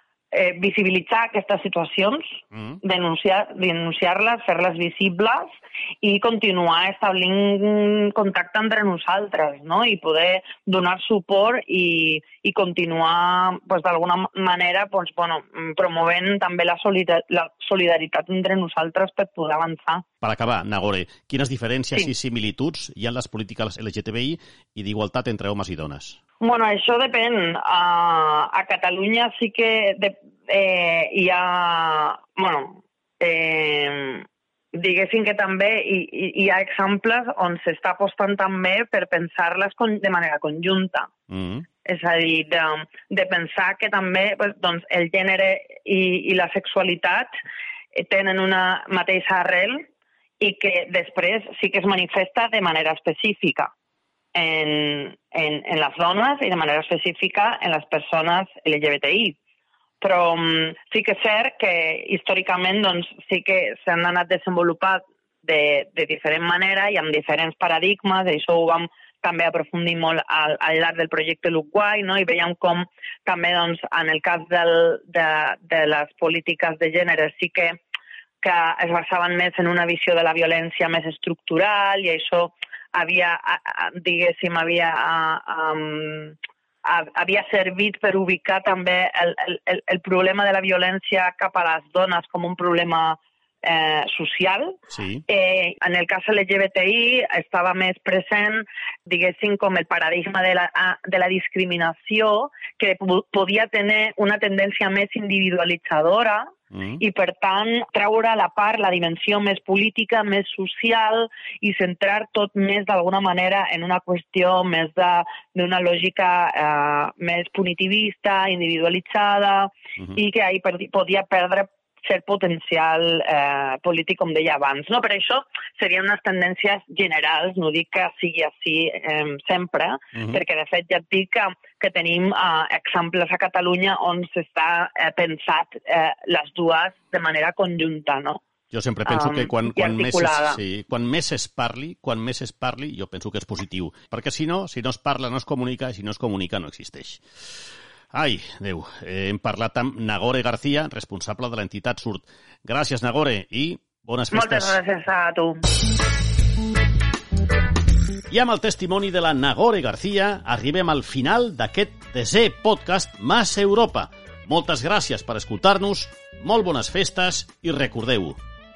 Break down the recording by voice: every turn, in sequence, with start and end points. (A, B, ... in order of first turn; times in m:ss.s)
0:00.3-0:02.2 A
0:02.5-0:02.8 B
0:02.8-0:20.0 A
0:20.2-0:26.2 B
0:26.4-0:41.1 A
0:41.3-0:41.6 B
0:41.8-0:47.3 A
0:48.0-0:49.9 A
0:50.4-0:53.7 A
0:54.3-0:59.4 A
1:00.0-1:17.8 A
1:18.4-1:34.8 A
1:34.9-1:35.2 B
1:35.3-1:46.4 A
1:46.7-1:47.0 B
1:47.0-2:18.4 A
2:10.1-2:10.4 B
2:18.7-2:27.2 B
2:19.1-2:20.6 A
2:28.1-2:34.8 B
2:34.3-2:35.6 A
2:38.3-2:48.4 B